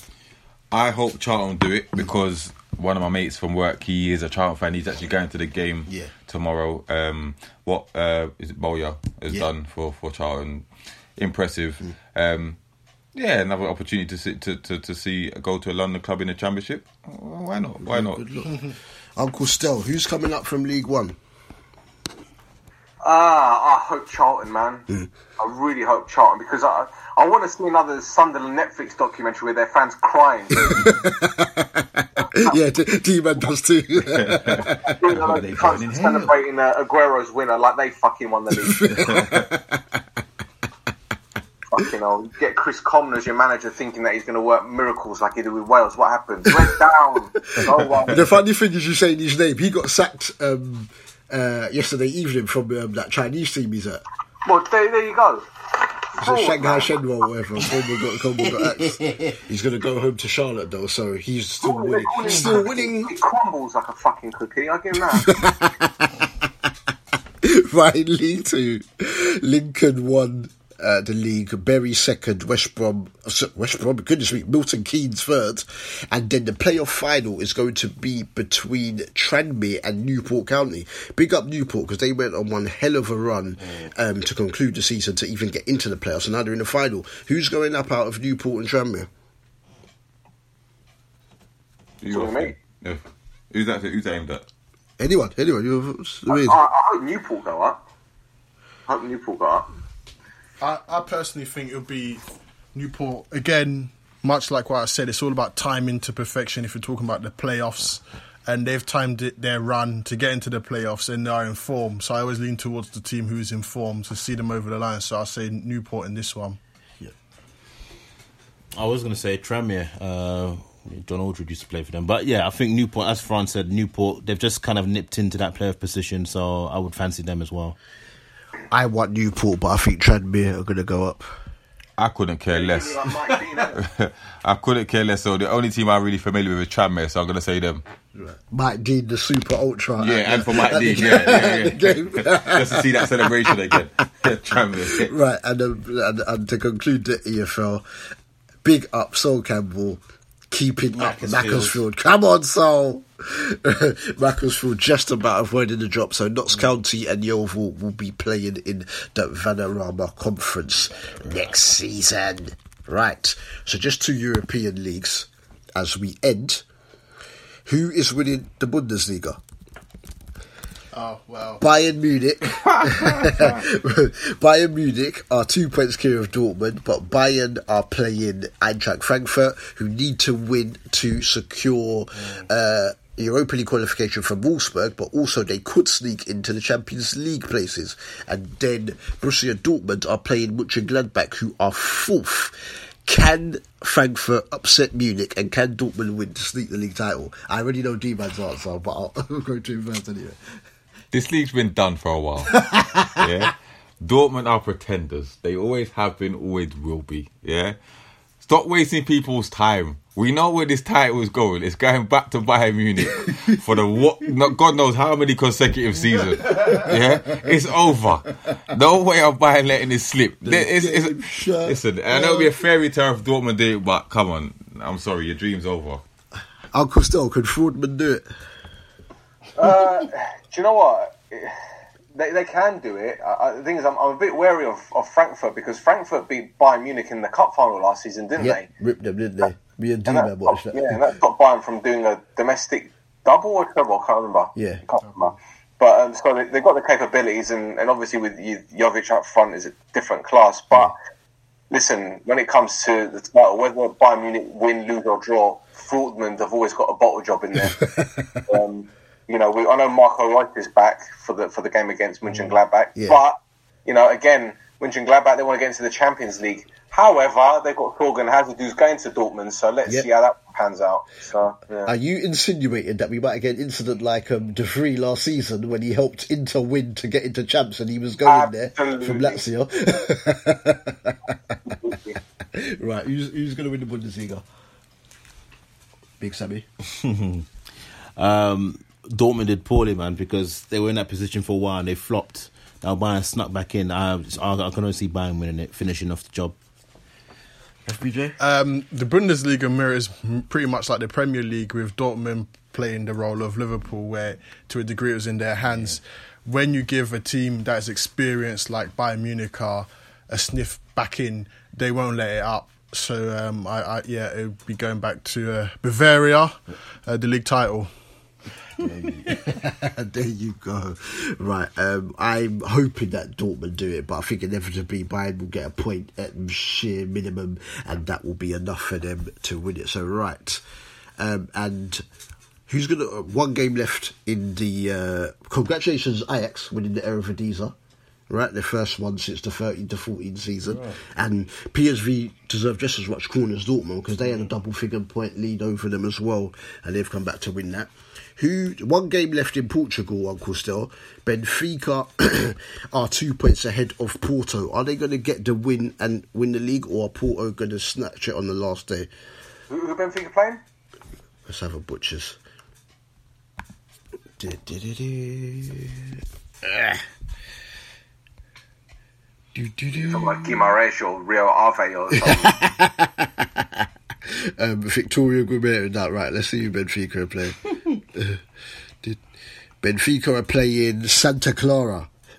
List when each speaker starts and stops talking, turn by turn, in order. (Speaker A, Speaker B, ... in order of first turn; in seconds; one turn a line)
Speaker A: 0.7-10.7
Speaker B: 5.9-6.1
Speaker A: 11.2-12.6
Speaker A: 13.1-18.2
Speaker B: 17.8-21.1
Speaker C: 23.0-30.9
Speaker B: 30.6-35.0
Speaker A: 34.0-35.9
Speaker C: 34.8-39.0
Speaker D: 35.5-36.2
Speaker B: 38.5-40.0
Speaker A: 39.0-39.5
Speaker C: 41.7-48.3
Speaker B: 46.5-46.8
Speaker B: 47.5-54.0
Speaker C: 54.4-55.4
Speaker C: 56.1-56.9
Speaker B: 56.2-63.1
Speaker D: 59.0-59.2
Speaker C: 61.6-65.4
Speaker B: 64.9-66.3
Speaker B: 67.4-89.1
Speaker A: 92.0-94.4
Speaker C: 92.1-92.5
Speaker B: 95.0-96.6
Speaker C: 96.3-97.8
Speaker C: 98.9-99.7
Speaker E: 100.6-102.2
Speaker E: 102.7-116.6
Speaker D: 118.7-127.8
Speaker B: 128.7-131.4
Speaker A: 132.0-133.0
Speaker C: 132.5-133.8
Speaker A: 133.7-137.8
Speaker B: 138.2-143.7
Speaker A: 140.0-145.1
Speaker B: 144.9-147.8
Speaker B: 148.6-166.6
Speaker D: 150.9-151.8
Speaker B: 167.7-169.4
Speaker E: 170.9-171.6
Speaker B: 171.6-200.4
Speaker A: 172.7-173.4
Speaker A: 201.1-202.6
Speaker B: 202.6-203.2
Speaker A: 203.2-207.8
Speaker A: 208.4-226.0
Speaker B: 216.6-217.0
Speaker B: 220.4-222.5
Speaker B: 226.7-228.2
Speaker C: 229.6-231.6
Speaker C: 232.1-238.7
Speaker B: 238.3-241.1
Speaker C: 240.1-250.9
Speaker B: 244.6-244.8
Speaker C: 251.7-271.9
Speaker B: 257.6-258.4
Speaker B: 262.9-263.2
Speaker B: 271.8-281.6
Speaker C: 278.2-279.4
Speaker C: 281.6-282.2
Speaker B: 282.5-284.4
Speaker B: 286.2-286.7
Speaker D: 287.0-287.4
Speaker D: 288.2-296.6
Speaker B: 297.9-298.4
Speaker E: 298.4-317.9
Speaker B: 318.8-330.6
Speaker B: 331.2-332.0
Speaker B: 332.7-337.7
Speaker B: 338.3-359.1
Speaker D: 340.7-341.0
Speaker C: 359.7-360.6
Speaker B: 361.5-362.4
Speaker B: 364.4-367.0
Speaker B: 369.5-370.7
Speaker C: 369.9-372.6
Speaker B: 372.1-378.4
Speaker B: 379.8-382.1